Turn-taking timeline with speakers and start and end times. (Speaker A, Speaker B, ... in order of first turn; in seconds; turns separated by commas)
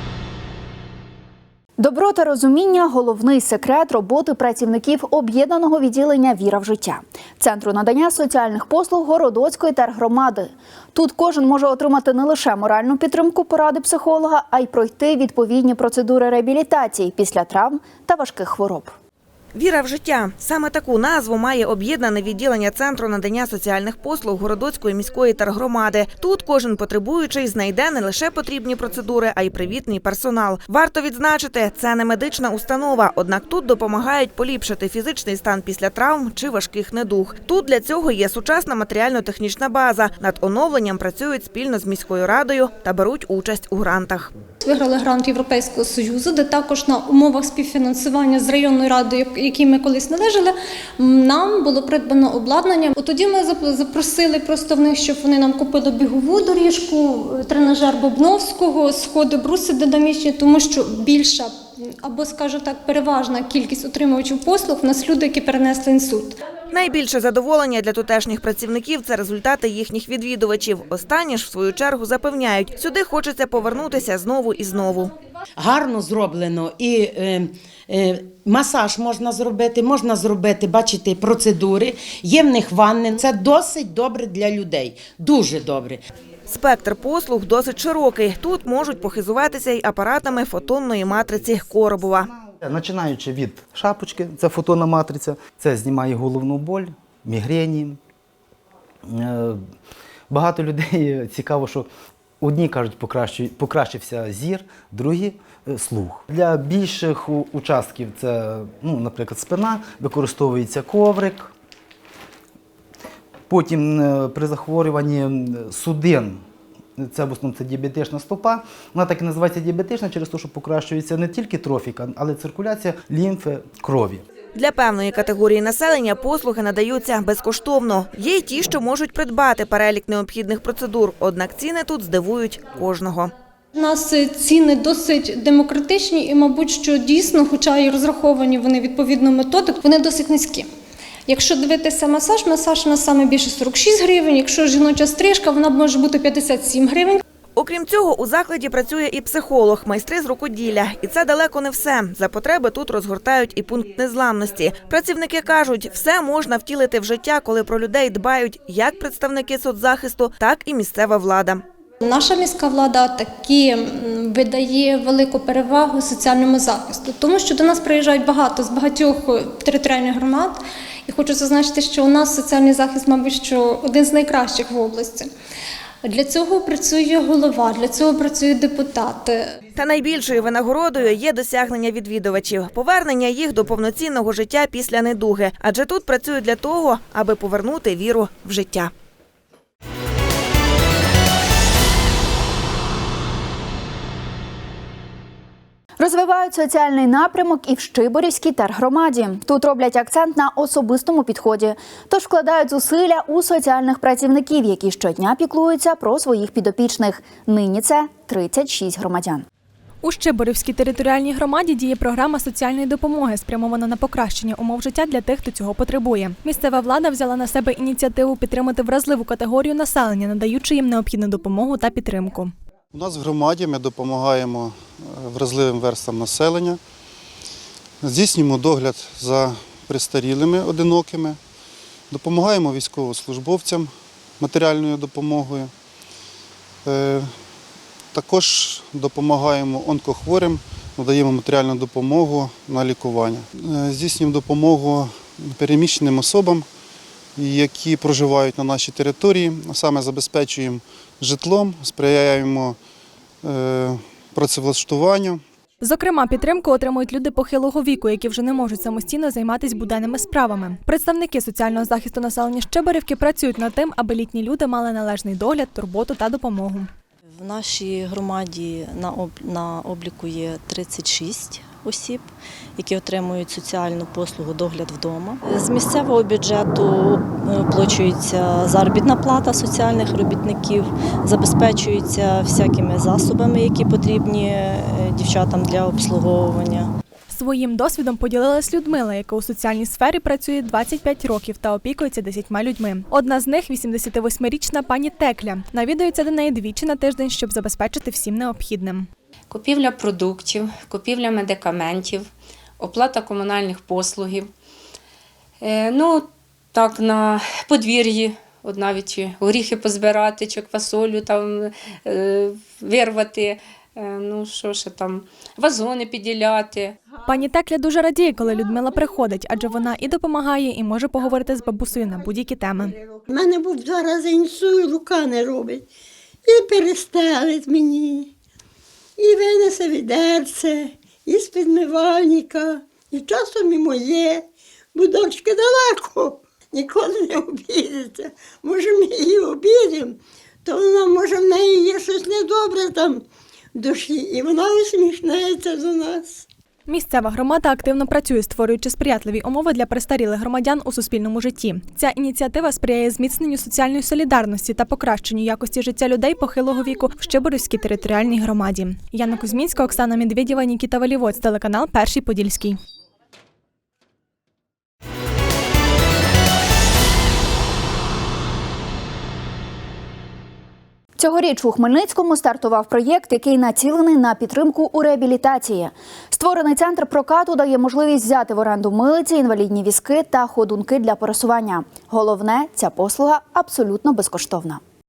Speaker A: 1.8-18.9, Speaker B: 19.6-44.3, Speaker C: 44.6-66.4, Speaker B: 66.7-75.1, Speaker D: 75.6-77.4, Speaker D: 78.5-81.6, Speaker D: 82.3-86.0, Speaker B: 86.5-92.3, Speaker E: 92.3-98.0, Speaker E: 99.1-99.6, Speaker E: 100.3-101.9, Speaker E: 102.4-111.5, Speaker E: 113.5-116.4, Speaker E: 117.0-124.2, Speaker B: 124.5-133.3, Speaker C: 133.8-140.7, Speaker C: 141.3-147.2, Speaker B: 147.6-161.6, Speaker C: 162.0-175.3, Speaker C: 176.0-179.5, Speaker B: 179.8-188.9, Speaker A: 196.0-209.4, Speaker F: 210.0-222.5, Speaker G: 222.9-226.8, Speaker G: 228.0-231.4, Speaker G: 232.1-235.7, Speaker G: 236.8-237.3, Speaker G: 238.1-246.7, Speaker G: 247.4-252.8, Speaker G: 253.4-255.4, Speaker F: 255.8-266.9, Speaker H: 267.4-286.9, Speaker F: 287.3-299.1, Speaker I: 300.2-300.9, Speaker I: 309.1-309.5, Speaker I: 310.4-311.3, Speaker F: 317.2-322.9, Speaker J: 323.3-325.9, Speaker J: 326.5-328.3, Speaker J: 329.2-343.2, Speaker J: 343.8-346.4, Speaker F: 346.9-362.8, Speaker A: 371.2-384.8